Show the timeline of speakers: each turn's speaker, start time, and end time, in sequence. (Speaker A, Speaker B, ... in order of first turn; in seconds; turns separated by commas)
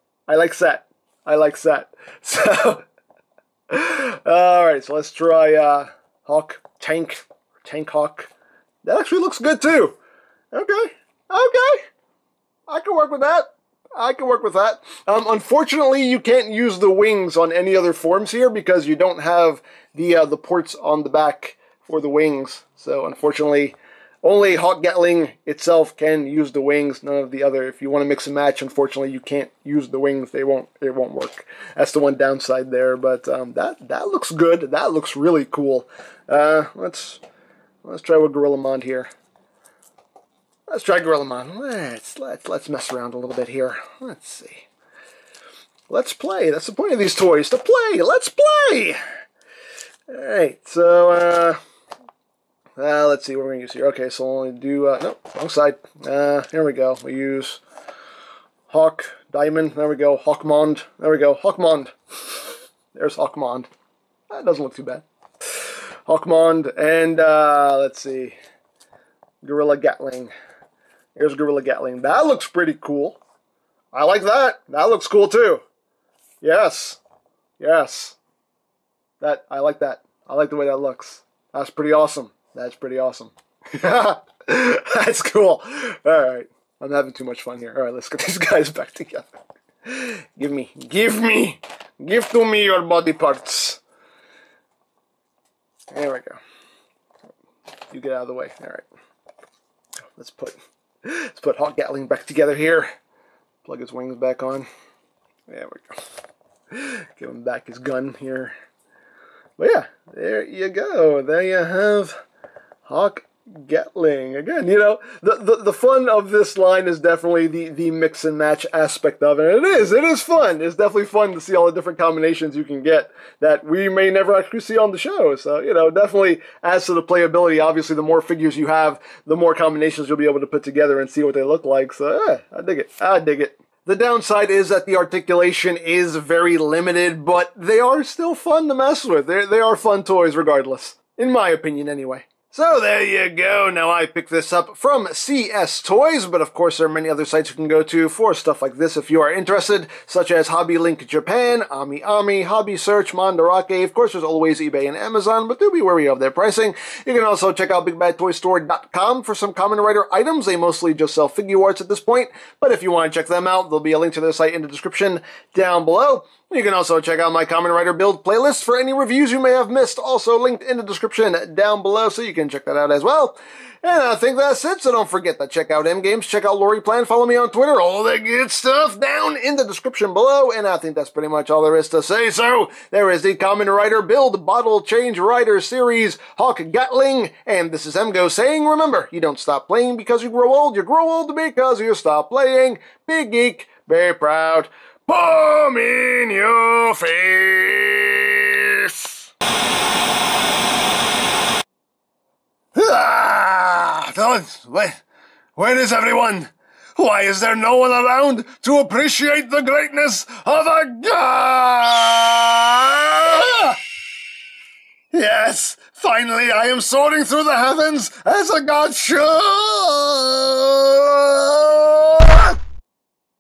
Speaker A: 0.3-2.8, Speaker A: 3.7-8.3, Speaker A: 8.8-10.0, Speaker A: 10.5-11.9, Speaker A: 12.7-37.2, Speaker A: 37.8-39.1, Speaker A: 40.7-44.7, Speaker A: 45.9-49.0, Speaker A: 50.1-51.6, Speaker A: 52.8-57.6, Speaker A: 58.7-61.9, Speaker A: 62.9-63.7, Speaker A: 64.3-65.1, Speaker A: 65.6-68.4, Speaker A: 69.4-70.3, Speaker A: 71.2-73.2, Speaker A: 73.9-75.6, Speaker A: 76.4-77.0, Speaker A: 77.6-78.2, Speaker A: 79.2-89.3, Speaker A: 89.8-93.8, Speaker A: 95.9-96.4, Speaker A: 97.9-98.9, Speaker A: 100.2-102.9, Speaker A: 103.6-104.7, Speaker A: 105.5-106.0, Speaker A: 106.7-108.5, Speaker A: 109.6-112.2, Speaker A: 112.9-199.3, Speaker A: 202.7-205.0, Speaker A: 205.6-213.8, Speaker A: 215.1-222.6